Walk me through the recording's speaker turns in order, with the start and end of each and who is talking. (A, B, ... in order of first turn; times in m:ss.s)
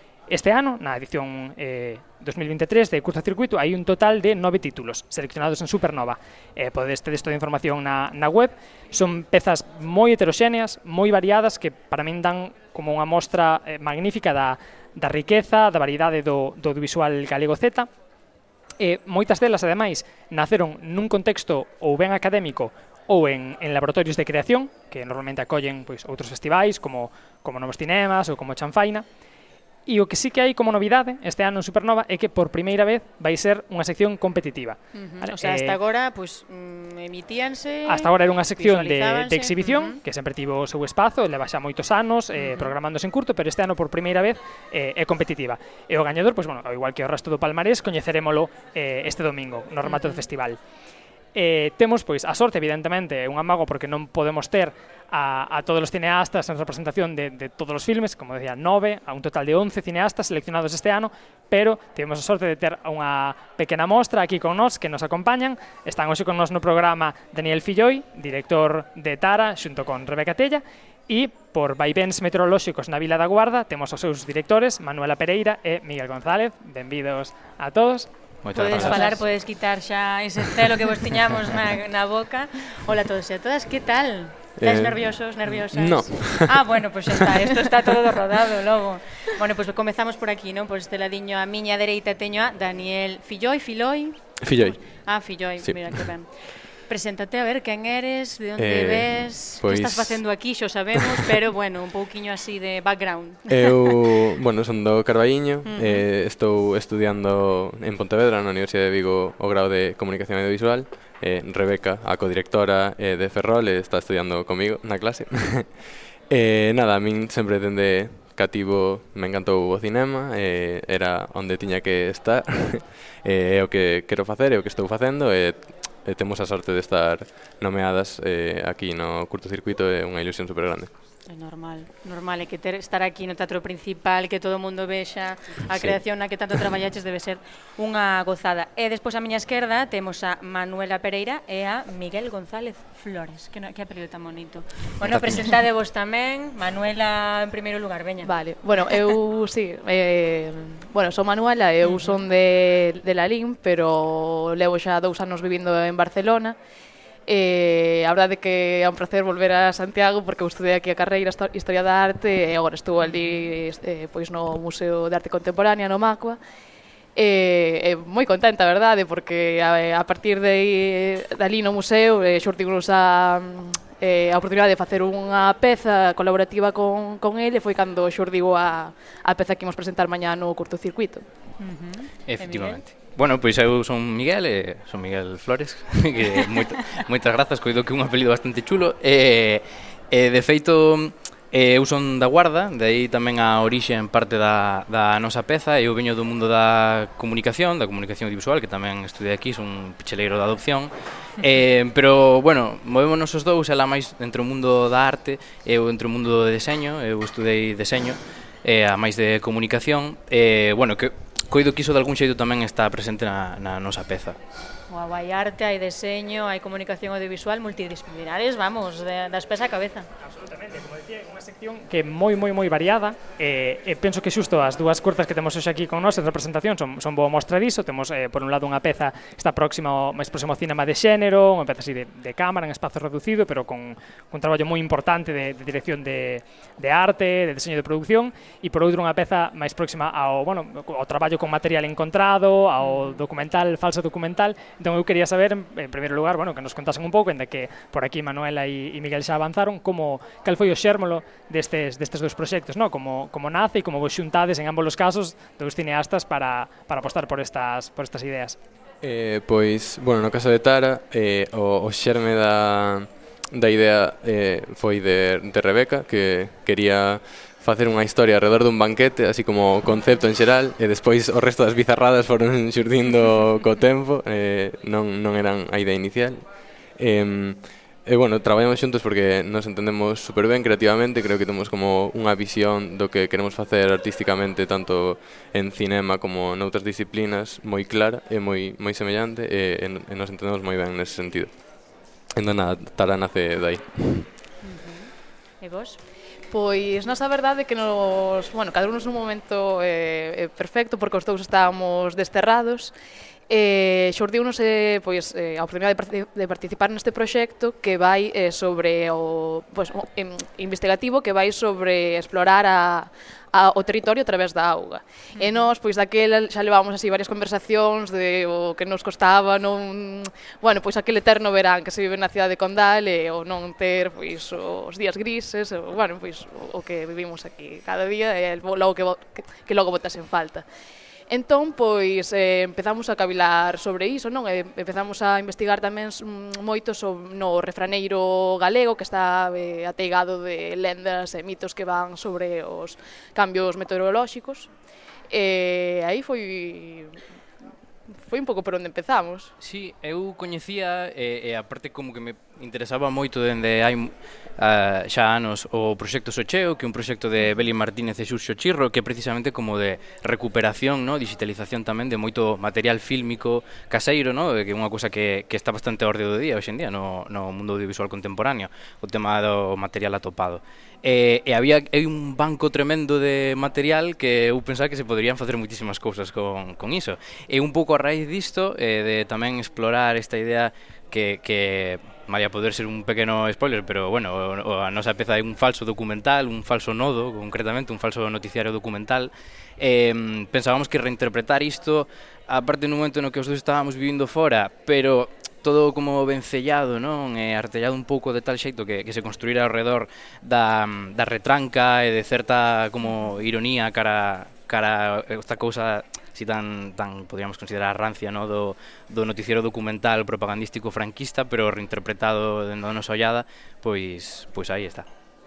0:00.3-0:17.9 A
0:18.8-0:29.1 A
0:29.9-0:35.8 A
0:34.9-0:40.0 B
0:37.8-0:50.6 A
0:42.3-0:42.7 B
0:49.8-0:50.2 B
0:51.3-1:19.1 A
1:18.4-1:19.2 C
1:18.5-1:43.6 B
1:24.6-1:26.8 D
1:34.4-1:36.1 D
1:38.6-1:40.4 D
1:43.5-2:10.9 D
1:45.6-1:46.0 B
2:11.3-2:28.3 B
2:15.7-2:16.0 D
2:28.2-2:36.6 E
2:31.8-2:32.2 B
2:37.2-2:46.4 E
2:43.0-2:43.5 B
2:47.1-3:01.3 E
3:01.6-3:02.8 B
3:02.2-3:34.4 C
3:34.9-3:40.1 B
3:40.2-4:18.6 A
4:02.8-4:03.2 B
4:19.0-4:54.3 D
4:54.6-4:56.0 B
4:56.5-5:03.0 E
5:03.5-5:30.6 E
5:15.4-5:15.7 B
5:31.3-5:47.2 E
5:48.1-5:49.5 E
5:49.6-6:55.1 C
6:43.0-6:43.4 B